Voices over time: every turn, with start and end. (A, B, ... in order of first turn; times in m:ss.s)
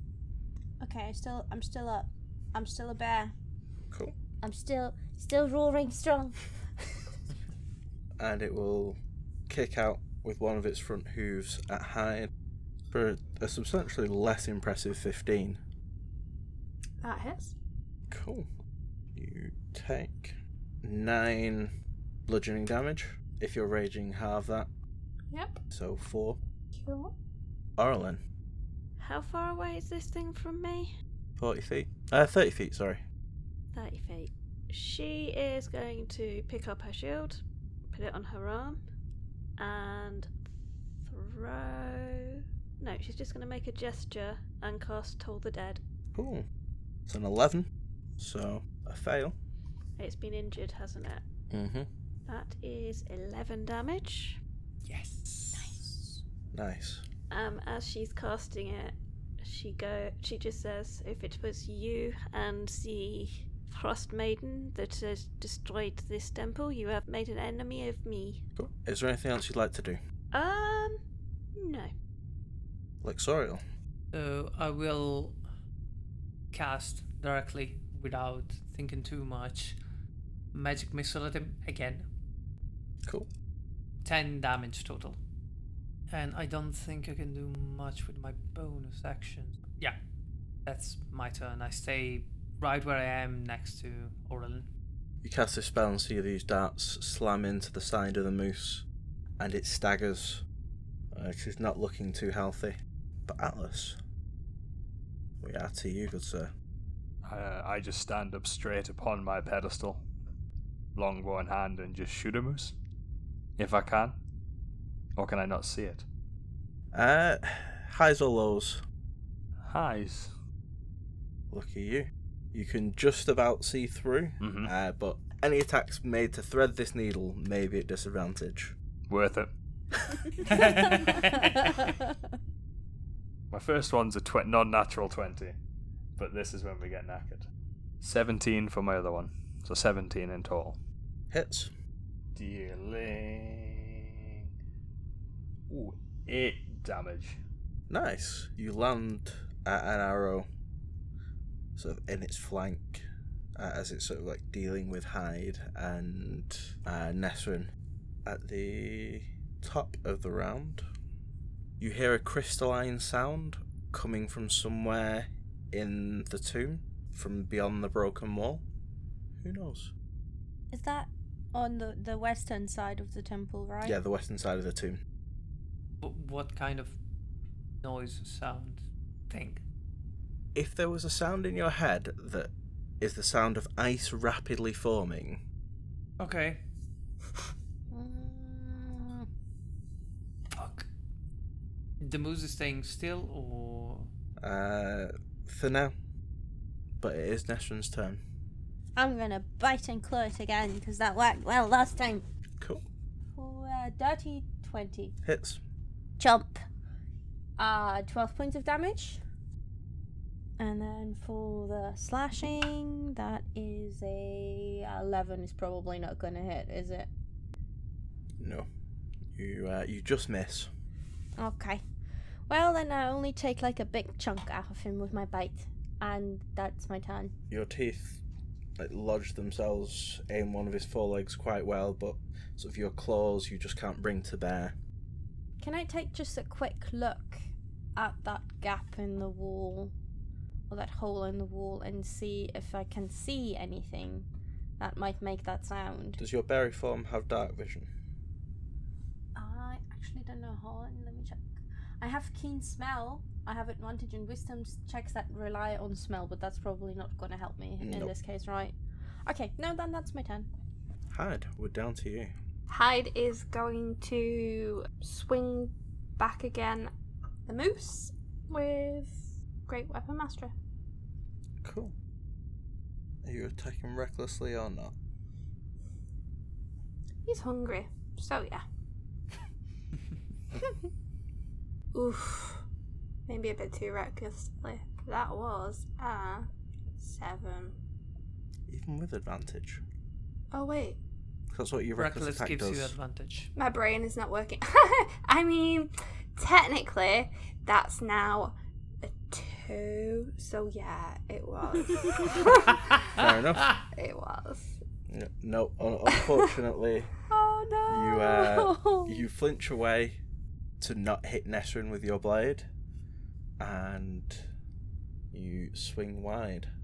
0:00.8-0:03.3 A
0:04.4-0:06.6 A
0:08.2-0:09.0 B
0:09.5-0:12.3 B
0:12.9-0:15.6 B
0:17.0-0:17.5 C
0:18.1-0:18.5 B
0:19.1-0:21.7 B
0:22.3-0:24.7 B
0:25.3-0:25.6 C
0:25.7-0:26.4 B
0:26.7-0:27.1 C
0:27.8-0:28.2 B
0:29.0-0:30.9 D
0:31.4-0:33.0 B
0:33.7-0:38.8 D
0:39.6-0:40.3 D
0:41.0-0:45.8 D
0:46.1-0:46.4 B
0:47.1-0:49.4 B
0:50.0-0:51.2 D
0:51.5-0:51.9 B
0:52.2-0:54.4 D
0:54.8-0:55.9 E
0:55.5-0:56.0 A
0:56.5-0:57.0 B
0:57.3-1:08.5 D
1:08.6-1:10.0 B
1:10.3-1:11.0 D
1:11.6-1:11.9 D
1:13.0-1:13.6 B
1:14.1-1:15.4 E
1:16.5-1:19.8 E
1:20.5-1:22.1 E
1:24.0-1:25.2 E
1:26.1-1:30.0 E
1:30.6-1:34.7 E
1:35.2-1:38.8 B
1:39.4-1:40.4 B
1:41.1-1:44.0 B
1:45.4-1:46.5 B
1:47.2-1:50.0 F
1:50.9-1:52.7 F
1:53.6-1:54.1 F
1:55.2-1:56.0 F
1:56.9-1:58.8 B
1:59.7-2:00.3 F
2:01.5-2:08.7 B
2:04.4-2:04.7 F
2:09.1-2:09.5 F
2:10.5-2:11.5 E
2:10.7-2:11.2 F
2:13.5-2:15.6 F
2:16.2-2:17.5 F
2:18.0-2:20.8 F
2:21.3-2:21.7 B
2:22.3-2:24.0 F
2:25.7-2:27.4 F
2:27.9-2:30.5 B
2:31.8-2:37.7 B
2:38.2-2:40.8 B
2:41.8-2:48.6 B
2:49.4-2:49.9 B
2:50.7-2:54.0 A
2:53.8-2:55.0 B
2:56.0-2:57.0 E
2:57.8-2:59.6 E
3:00.5-3:05.4 B
3:06.2-3:06.6 E
3:07.9-3:09.3 A
3:10.5-3:10.9 E
3:12.0-3:14.1 E
3:14.4-3:15.9 B
3:17.0-3:18.2 B
3:19.0-3:22.2 A
3:23.3-3:25.1 A
3:25.2-3:25.6 B
3:26.2-3:26.6 A
3:27.6-3:29.2 A
3:30.6-3:37.1 A
3:38.4-3:38.7 B
3:39.3-3:40.7 B
3:41.4-3:41.8 A
3:42.5-3:47.3 A
3:47.5-3:48.2 B
3:48.8-3:54.8 B
3:55.6-3:59.9 A
4:00.7-4:04.3 A
4:04.8-4:06.2 A
4:06.2-4:07.9 B
4:09.3-4:20.5 A
4:17.8-4:18.1 B
4:21.1-4:22.3 B
4:22.7-4:26.9 C
4:27.5-4:30.5 C
4:31.6-4:31.9 B
4:33.2-4:34.9 B
4:37.2-4:38.6 C
4:41.9-4:42.6 C
4:43.3-4:46.5 C
4:47.0-4:47.8 C
4:48.7-4:49.8 B
4:50.5-4:51.0 C
4:51.5-4:52.9 B
4:52.0-4:53.5 E
4:53.6-5:02.8 C
5:03.2-5:03.7 B
5:03.9-5:04.8 C
5:05.1-5:07.1 B
5:07.3-5:08.7 C
5:07.9-5:10.2 B
5:08.7-5:09.0 A
5:10.8-5:12.7 B
5:13.6-5:14.5 B
5:15.3-5:16.7 B